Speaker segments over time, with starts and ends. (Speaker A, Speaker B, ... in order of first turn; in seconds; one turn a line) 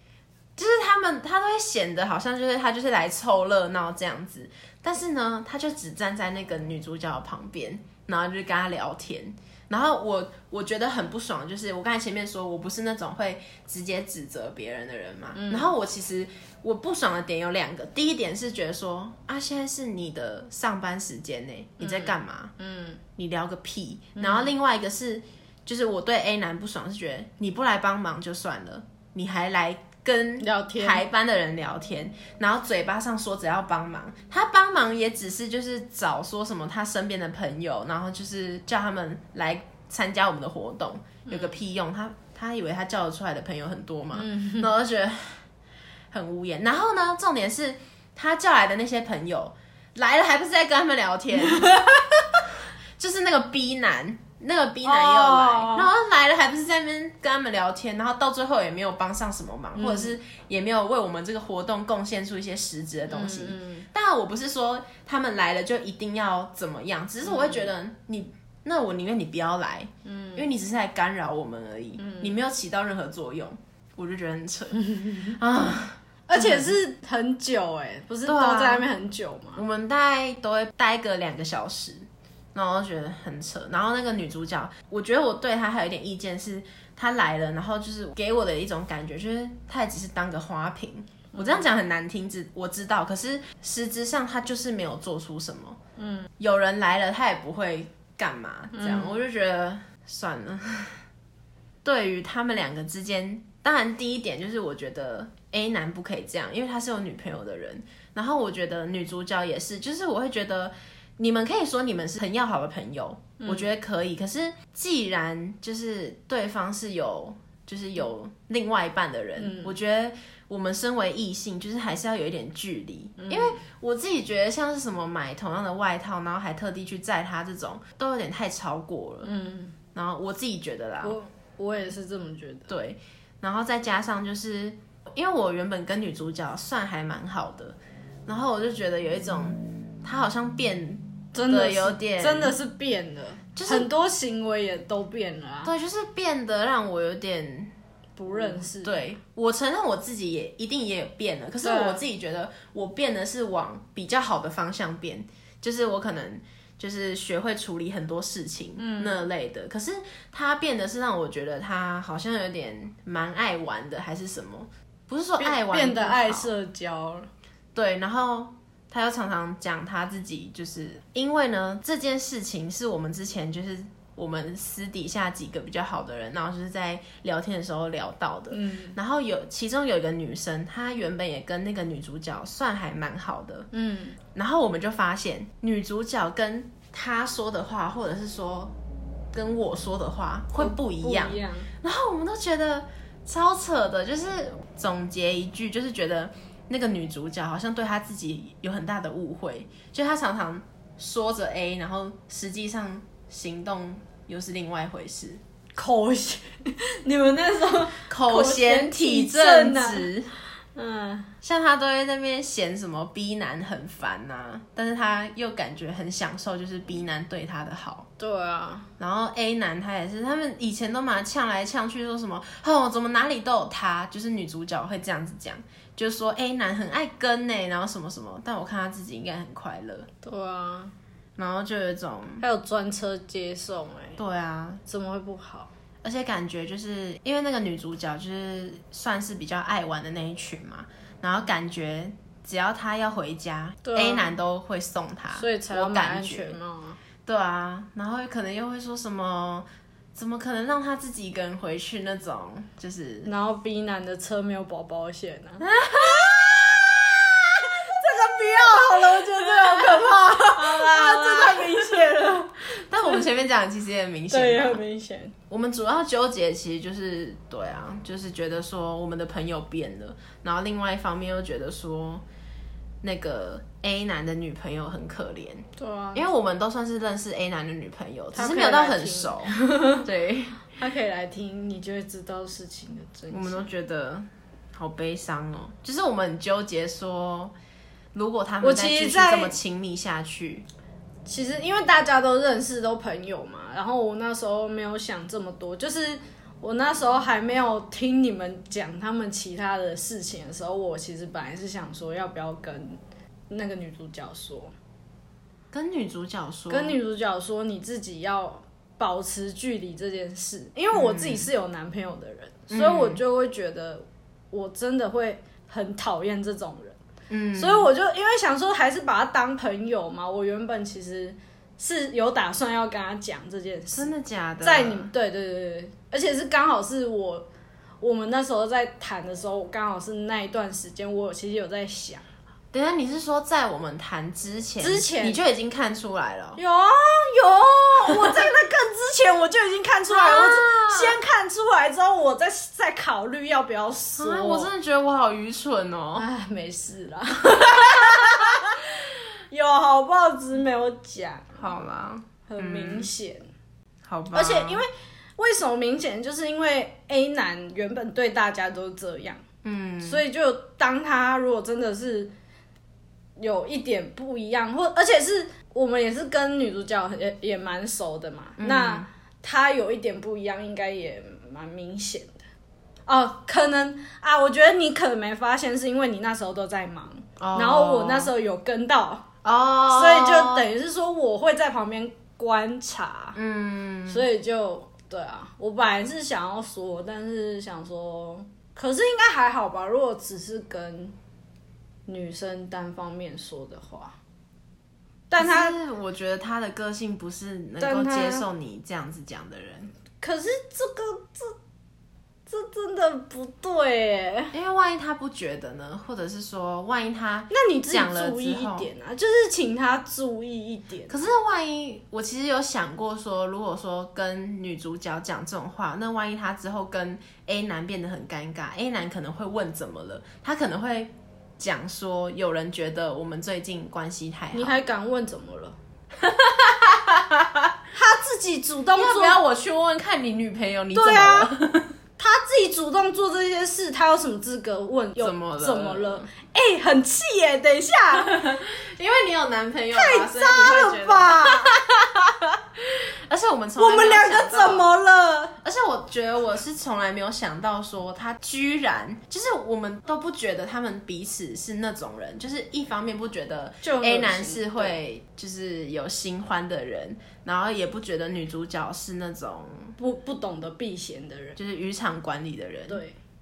Speaker A: 0.6-22.5
Speaker B: 15.3-15.7
Speaker B: 21.8-23.0
Speaker A: 23.2-45.5
Speaker B: 24.2-24.5
Speaker B: 30.4-31.1
Speaker B: 41.3-41.6
Speaker B: 44.1-44.7
Speaker A: 46.1-76.8
Speaker B: 54.8-55.9
Speaker B: 59.8-60.2
Speaker B: 63.1-63.9
Speaker B: 67.3-67.7
Speaker B: 70.1-70.5
Speaker B: 72.0-72.3
Speaker B: 74.8-75.4
Speaker B: 76.3-79.6
Speaker A: 78.3-78.9
Speaker A: 79.6-95.8
Speaker B: 91.3-91.7
Speaker B: 96.0-96.3
Speaker A: 96.4-101.0
Speaker B: 98.7-99.2
Speaker A: 101.8-129.3
Speaker B: 113.4-113.7
Speaker B: 119.4-119.7
Speaker B: 123.2-123.6
Speaker B: 129.2-129.8
Speaker A: 129.9-131.2
Speaker B: 131.0-132.7
Speaker A: 132.7-142.6
Speaker B: 141.3-145.7
Speaker A: 143.6-143.9
Speaker A: 145.7-147.7
Speaker B: 148.2-149.0
Speaker A: 148.3-166.5
Speaker B: 151.6-152.0
Speaker B: 158.8-159.2
Speaker B: 165.4-167.3
Speaker A: 167.8-183.7
Speaker B: 178.5-179.0
Speaker B: 183.7-184.2
Speaker A: 184.3-188.8
Speaker A: 189.3-205.4
Speaker B: 190.6-191.7
Speaker B: 205.8-210.1
Speaker A: 208.1-210.3
Speaker B: 210.8-211.3
Speaker A: 211.4-218.1
Speaker B: 218.2-218.9
Speaker A: 219.0-230.1
Speaker B: 230.2-230.9
Speaker A: 231.4-232.4
Speaker B: 232.4-234.2
Speaker A: 234.2-234.8
Speaker B: 234.9-235.7
Speaker A: 236.0-246.5
Speaker B: 243.8-244.3
Speaker B: 245.3-247.0
Speaker A: 247.3-253.3
Speaker B: 253.2-255.7
Speaker A: 255.6-258.0
Speaker B: 257.6-263.2
Speaker A: 259.0-262.2
Speaker A: 262.7-264.8
Speaker B: 264.3-265.4
Speaker A: 265.5-272.2
Speaker A: 273.0-280.6
Speaker B: 275.8-276.3
Speaker B: 278.3-280.1
Speaker B: 280.7-283.7
Speaker A: 283.3-287.5
Speaker A: 288.1-290.7
Speaker B: 288.6-289.6
Speaker B: 291.3-303.0
Speaker B: 303.5-304.7
Speaker A: 305.7-307.0
Speaker B: 306.7-317.0
Speaker A: 310.9-311.5
Speaker A: 312.7-313.2
Speaker A: 317.3-317.9
Speaker B: 317.6-327.5
Speaker A: 323.9-325.1
Speaker B: 328.0-332.2
Speaker A: 332.7-336.6
Speaker B: 334.8-335.4
Speaker B: 336.6-344.7
Speaker A: 340.1-341.2
Speaker A: 344.2-346.3
Speaker B: 346.1-351.6
Speaker A: 347.4-348.8
Speaker A: 351.6-353.1
Speaker B: 352.5-353.5
Speaker A: 354.1-354.8
Speaker B: 354.3-359.4
Speaker A: 359.6-360.2
Speaker B: 360.0-362.3
Speaker B: 363.4-372.4
Speaker A: 368.6-369.1
Speaker B: 373.1-379.3
Speaker A: 377.4-378.3
Speaker A: 379.4-380.7
Speaker B: 379.9-383.4
Speaker A: 383.4-384.3
Speaker B: 384.1-391.1
Speaker B: 392.1-394.2
Speaker B: 395.3-395.8
Speaker A: 395.4-399.9
Speaker B: 397.8-398.5
Speaker B: 400.2-401.6
Speaker B: 402.5-404.5
Speaker A: 404.5-408.9
Speaker B: 407.5-411.2
Speaker A: 411.1-424.8
Speaker B: 424.5-425.8
Speaker A: 426.2-427.7
Speaker B: 427.9-429.4
Speaker A: 428.9-431.9
Speaker B: 430.9-431.5
Speaker B: 432.2-438.5
Speaker A: 435.2-436.3
Speaker A: 438.1-444.9
Speaker B: 439.9-441.8
Speaker B: 443.8-445.6
Speaker A: 445.6-459.9
Speaker B: 453.8-455.0
Speaker B: 460.0-461.6
Speaker A: 461.6-463.0
Speaker B: 462.9-463.2